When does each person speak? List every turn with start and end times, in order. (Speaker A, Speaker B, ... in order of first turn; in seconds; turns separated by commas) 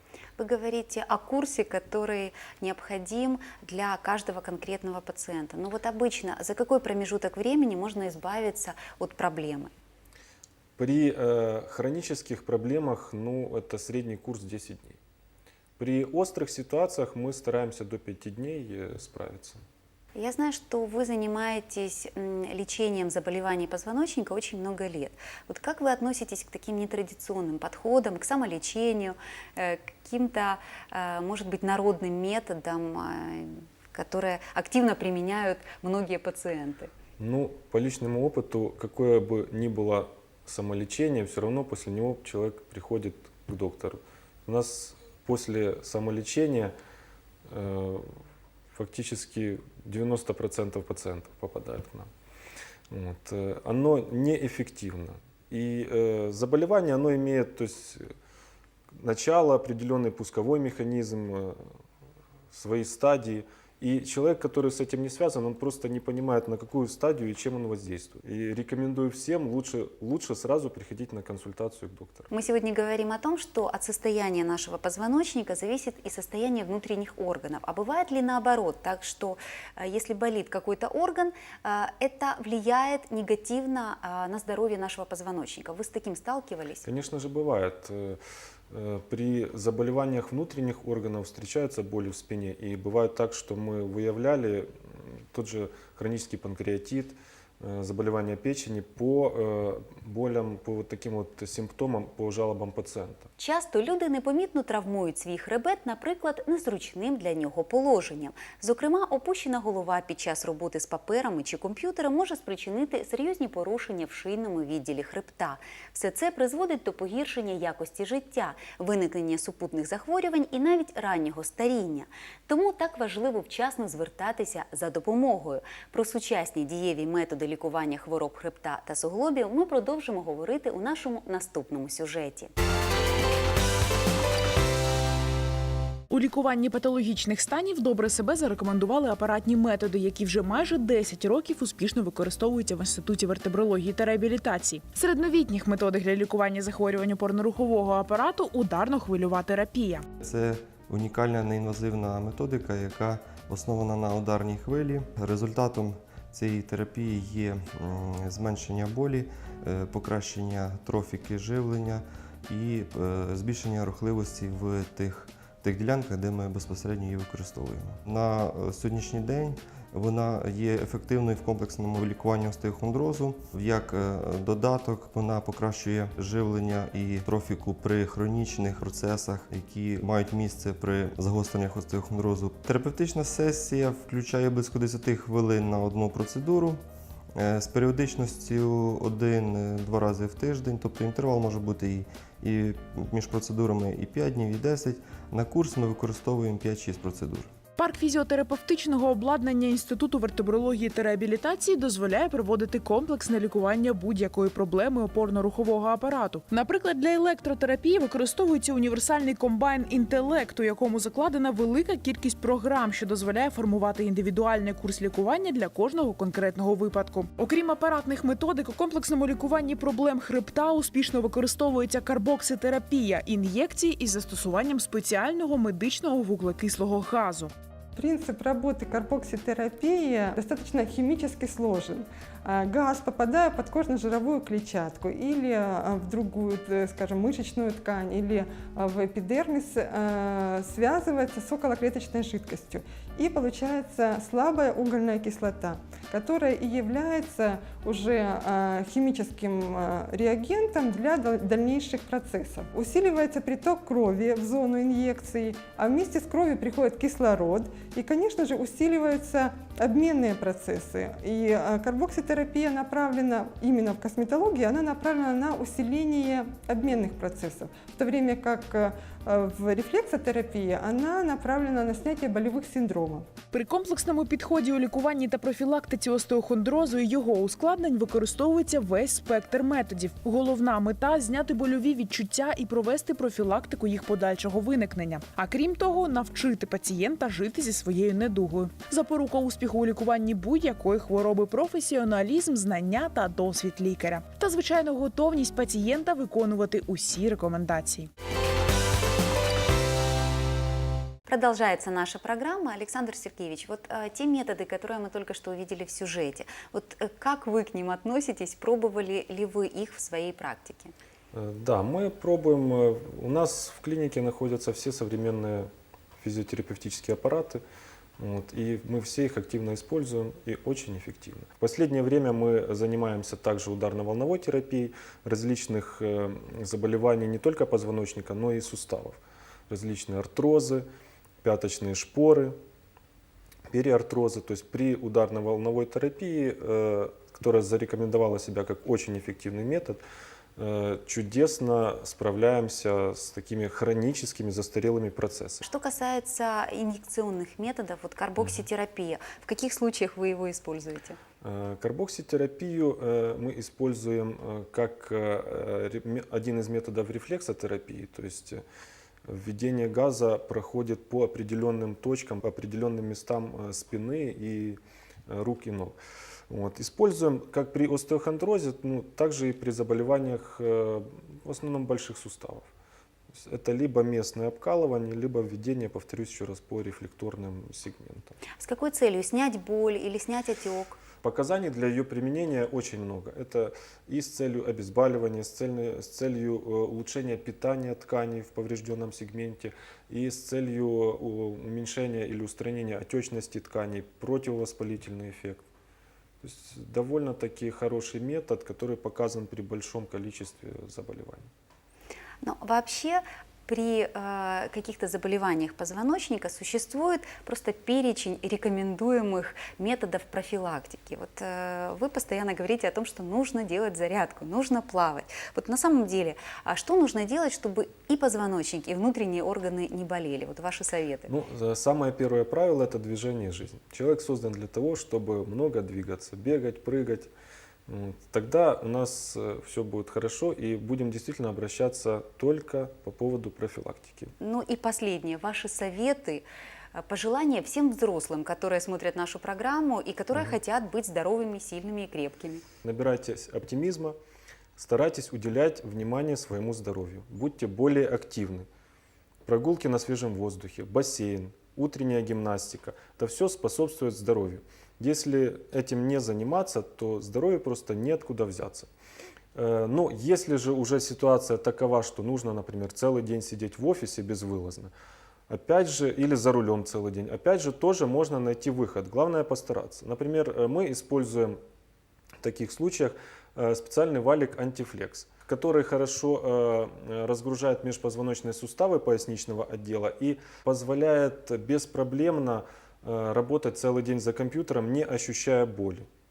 Speaker A: 0.4-9.7, Speaker B: 10.8-15.0, Speaker B: 15.8-19.6, Speaker A: 20.1-36.9, Speaker B: 37.2-46.7, Speaker B: 47.5-48.1, Speaker B: 48.7-52.1, Speaker B: 52.9-58.0, Speaker B: 59.0-61.6, Speaker B: 62.5-72.3, Speaker A: 72.3-86.9, Speaker B: 86.8-88.2, Speaker B: 88.7-94.7, Speaker B: 95.3-103.3, Speaker A: 103.4-132.5, Speaker C: 136.1-150.0, Speaker D: 150.2-186.8, Speaker D: 187.3-197.5, Speaker C: 197.8-227.5, Speaker E: 227.9-273.3, Speaker C: 273.5-298.1, Speaker A: 301.3-310.9, Speaker B: 311.3-315.7, Speaker B: 316.2-317.6, Speaker B: 318.2-329.2, Speaker B: 329.7-330.9, Speaker B: 331.4-332.5, Speaker B: 333.7-340.0, Speaker B: 340.6-345.6, Speaker A: 345.6-351.2, Speaker B: 351.4-358.6, Speaker B: 359.3-366.0, Speaker B: 366.5-372.7, Speaker B: 373.3-378.3, Speaker A: 378.6-381.0, Speaker B: 381.2-395.6, Speaker B: 396.4-401.5, Speaker A: 402.4-421.3, Speaker B: 421.3-427.3, Speaker B: 427.9-434.3, Speaker A: 434.4-442.6, Speaker B: 442.8-444.1, Speaker B: 444.8-448.6, Speaker B: 449.5-458.9, Speaker B: 459.5-464.9, Speaker B: 465.5-471.6, Speaker B: 472.4-486.0